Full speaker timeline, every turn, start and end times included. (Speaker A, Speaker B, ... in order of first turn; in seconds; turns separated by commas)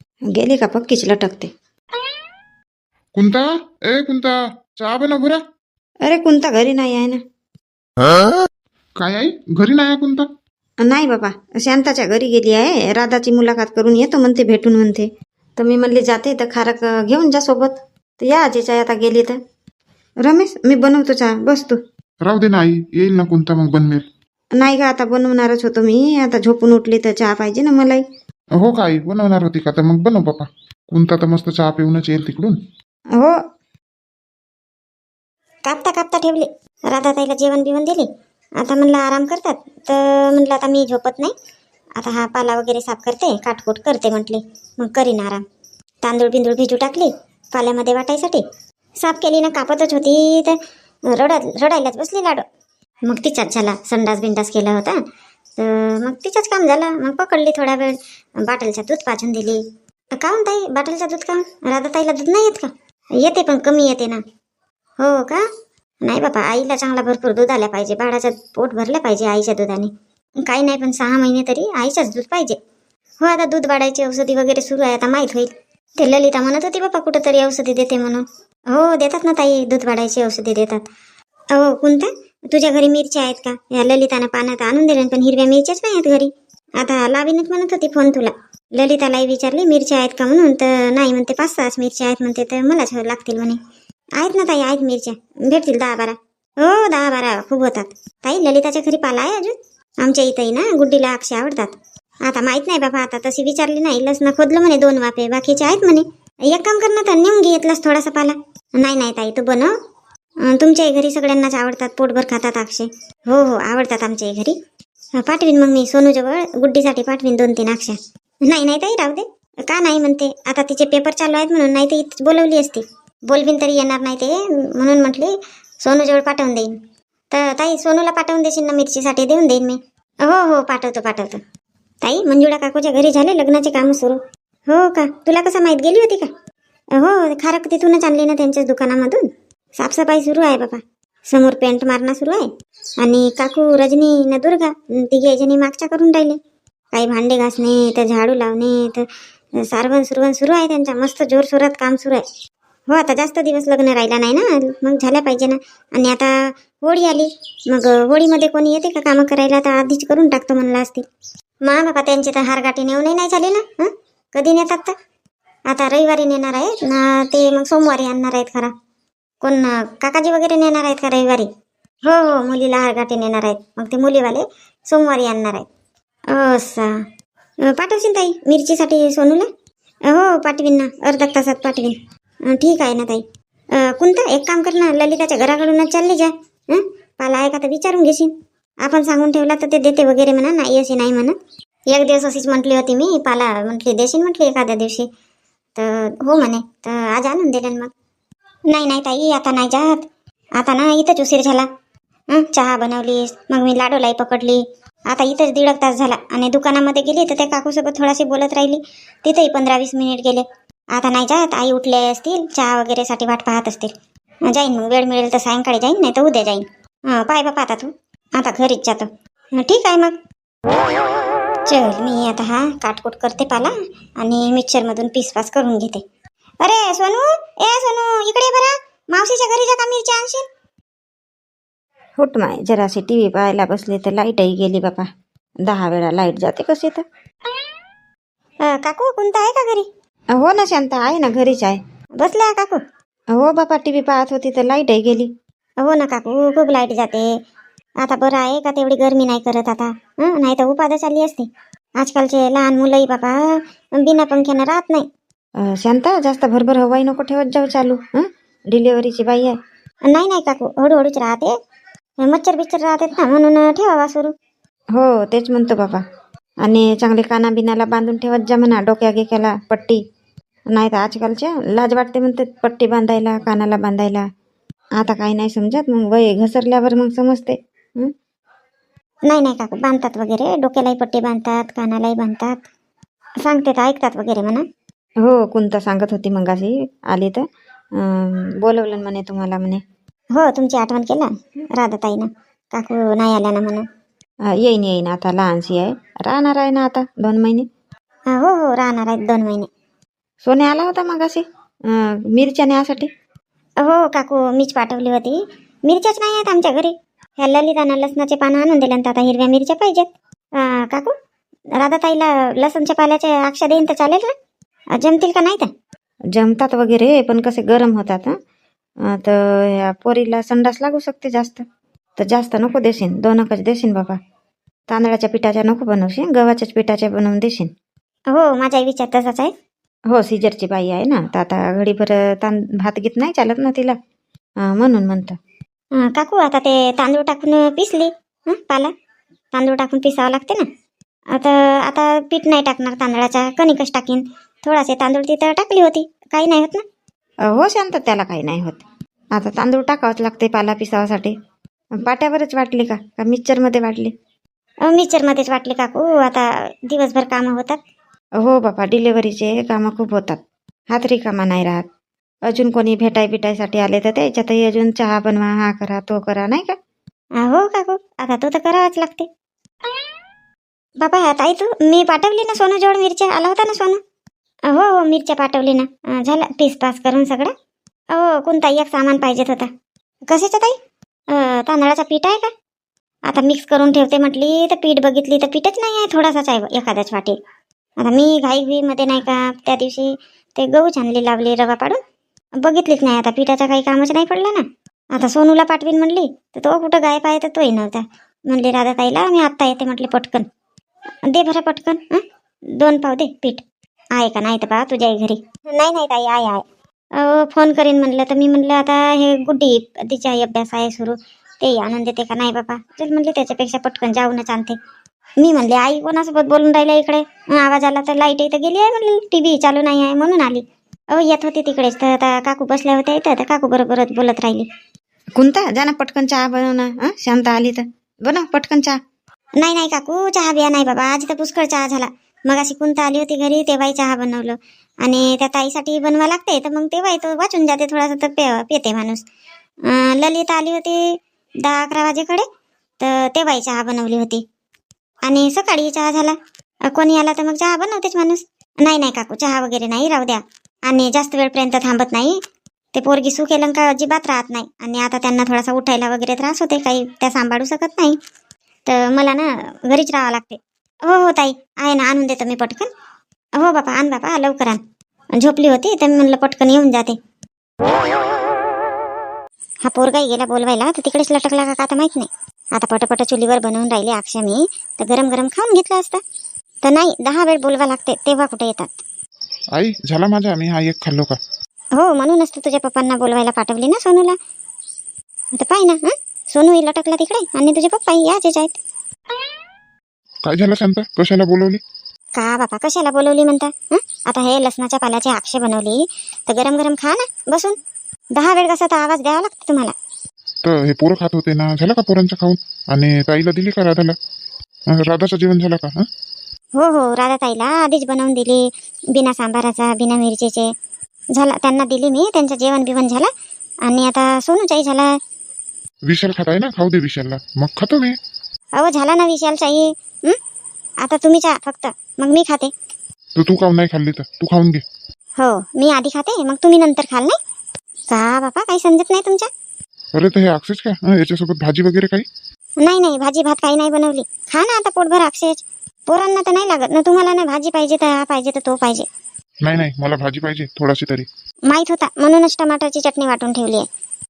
Speaker A: 0.3-1.5, Speaker B: 3.1-5.4, Speaker A: 6.0-7.2, Speaker B: 9.0-10.3, Speaker A: 10.8-19.4, Speaker A: 20.2-21.8, Speaker B: 22.2-24.1, Speaker A: 24.6-28.0, Speaker B: 28.6-32.6, Speaker C: 35.6-38.1, Speaker C: 38.6-41.3, Speaker C: 42.0-45.4, Speaker C: 46.0-48.4, Speaker C: 49.0-50.6, Speaker C: 51.1-52.5, Speaker C: 53.0-55.0, Speaker C: 55.6-59.6, Speaker C: 60.1-64.2, Speaker C: 65.0-65.5, Speaker C: 66.0-72.6, Speaker C: 73.2-80.9, Speaker C: 81.5-93.6, Speaker C: 94.2-109.7, Speaker C: 110.5-114.6, Speaker C: 115.2-126.7, Speaker C: 127.3-131.4, Speaker C: 132.0-136.3, Speaker C: 136.9-142.5, Speaker C: 143.0-146.4, Speaker C: 146.9-152.2, Speaker C: 152.9-161.1, Speaker C: 161.6-164.9, Speaker C: 165.7-168.7, Speaker C: 169.4-171.5, Speaker C: 172.0-175.7, Speaker C: 176.3-177.0, Speaker C: 177.7-179.5, Speaker C: 180.1-182.0, Speaker C: 182.5-191.4, Speaker C: 191.9-195.1, Speaker C: 195.8-197.9, Speaker C: 198.7-200.1, Speaker C: 200.6-201.7, Speaker C: 202.3-213.9, Speaker C: 214.5-220.2, Speaker C: 221.7-226.0, Speaker C: 226.6-230.5, Speaker A: 232.2-235.1, Speaker A: 235.7-237.0, Speaker C: 238.6-239.9, Speaker A: 240.3-241.8, Speaker C: 242.2-242.8, Speaker A: 243.3-245.3, Speaker C: 245.8-247.3, Speaker C: 248.0-255.1, Speaker A: 255.6-259.6, Speaker C: 260.1-261.5, Speaker C: 262.2-264.3, Speaker A: 264.9-266.0, Speaker A: 266.6-270.0, Speaker A: 270.7-274.2, Speaker A: 275.0-278.1, Speaker C: 279.3-282.6, Speaker C: 283.4-284.6, Speaker A: 285.2-287.4, Speaker A: 288.0-289.8, Speaker C: 290.4-293.9, Speaker A: 294.5-297.7, Speaker C: 298.3-299.7, Speaker A: 300.4-303.1, Speaker C: 303.8-311.1, Speaker C: 311.8-314.3, Speaker C: 314.9-315.7, Speaker A: 316.4-318.4, Speaker A: 319.1-321.6, Speaker A: 322.2-324.2, Speaker A: 324.9-327.7, Speaker C: 328.3-329.5, Speaker A: 330.1-333.9, Speaker A: 334.6-335.4, Speaker C: 336.0-338.9, Speaker C: 339.5-340.7, Speaker C: 341.3-346.8, Speaker A: 347.5-348.8, Speaker A: 349.4-351.3, Speaker A: 352.0-354.1, Speaker C: 354.9-357.8, Speaker A: 358.4-360.4, Speaker A: 360.9-361.8, Speaker A: 362.5-366.8, Speaker C: 367.4-369.3, Speaker C: 371.0-374.0, Speaker C: 374.7-377.5, Speaker C: 378.1-379.7, Speaker C: 380.3-380.8, Speaker C: 381.3-382.5, Speaker C: 383.3-387.4, Speaker C: 388.0-392.0, Speaker C: 392.6-400.5, Speaker C: 401.3-402.2, Speaker C: 402.8-403.6, Speaker C: 404.1-414.8, Speaker C: 415.4-424.7, Speaker A: 425.4-429.0, Speaker C: 429.6-439.2, Speaker C: 439.9-442.5, Speaker C: 443.0-444.4, Speaker C: 445.2-452.4, Speaker C: 452.9-458.2, Speaker C: 458.9-462.9, Speaker C: 463.6-464.8, Speaker C: 465.4-467.2, Speaker C: 469.9-476.2, Speaker C: 476.8-479.0, Speaker B: 479.7-481.4, Speaker C: 482.0-484.4, Speaker C: 485.6-488.8, Speaker B: 490.4-491.8, Speaker C: 492.4-497.8, Speaker C: 498.4-499.9, Speaker B: 500.6-504.2, Speaker B: 504.9-506.1, Speaker C: 506.8-510.7, Speaker C: 511.4-513.3, Speaker C: 513.9-515.2, Speaker B: 516.0-518.2, Speaker C: 518.8-520.4, Speaker C: 521.0-522.7, Speaker B: 523.4-524.8, Speaker C: 525.4-527.4, Speaker C: 528.1-529.5, Speaker B: 530.1-532.3, Speaker C: 532.8-539.1, Speaker B: 539.6-541.3, Speaker C: 541.7-543.9